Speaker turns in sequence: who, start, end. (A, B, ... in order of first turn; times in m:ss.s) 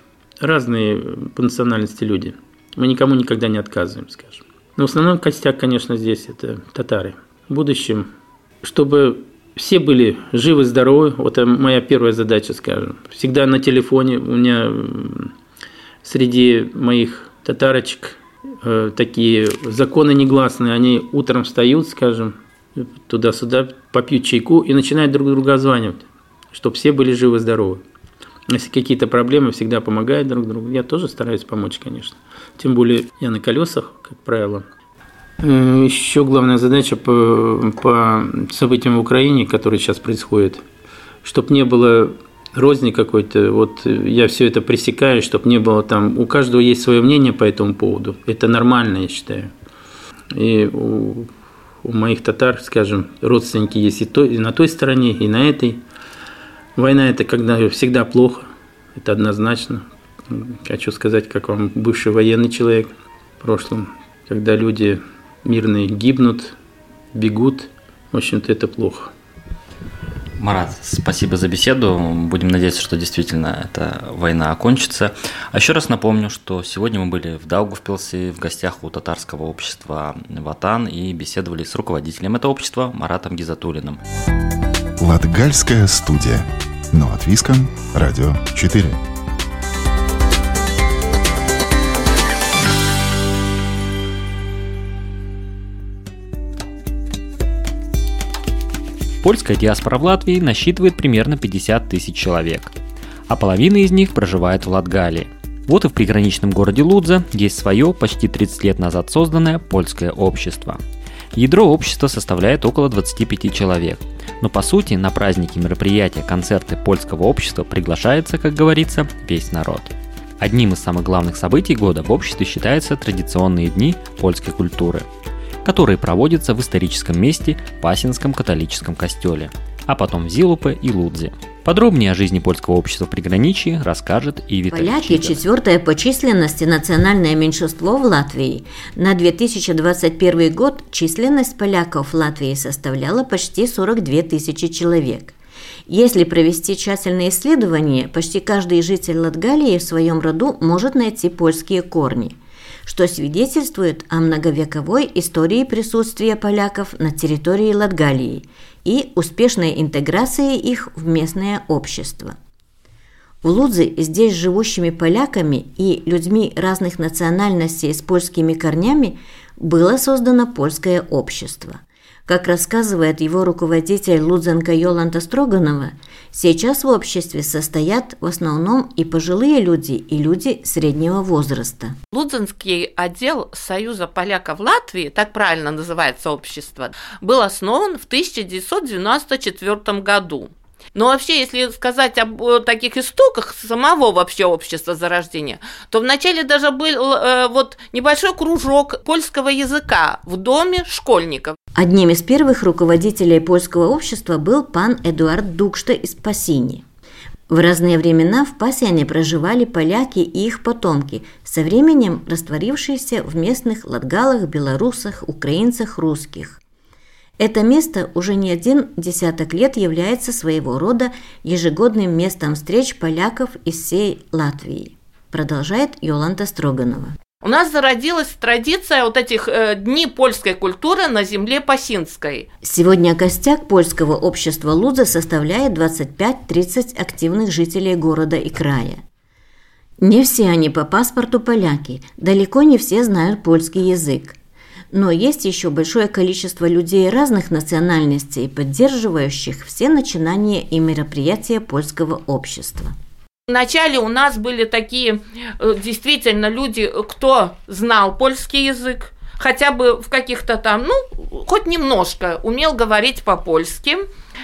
0:00.4-0:08.1 A
0:08.6-0:15.3 A
0:16.0-0:27.8 A
0:28.5-0:34.6 A
0:35.4-0:40.6 A
0:41.2-0:49.5 A
0:50.3-0:51.3 A
0:51.8-0:55.8 A
0:56.8-1:06.6 A
1:07.1-1:09.1 A
1:10.4-1:24.0 B
1:25.0-1:29.0 C
1:39.2-1:42.7 B
1:43.3-1:50.8 B
1:51.3-2:05.0 B
2:05.6-2:15.4 B
2:14.7-2:25.3 D
2:25.9-2:42.4 D
2:43.4-3:02.0 D
3:02.1-3:21.6 E
3:21.8-3:26.8 D
3:27.5-3:36.6 D
3:37.4-3:47.1 D
3:47.4-3:52.5 E
3:52.6-3:59.0 D
4:00.0-4:04.4 D
4:04.9-4:12.9 D
4:13.5-4:24.0 E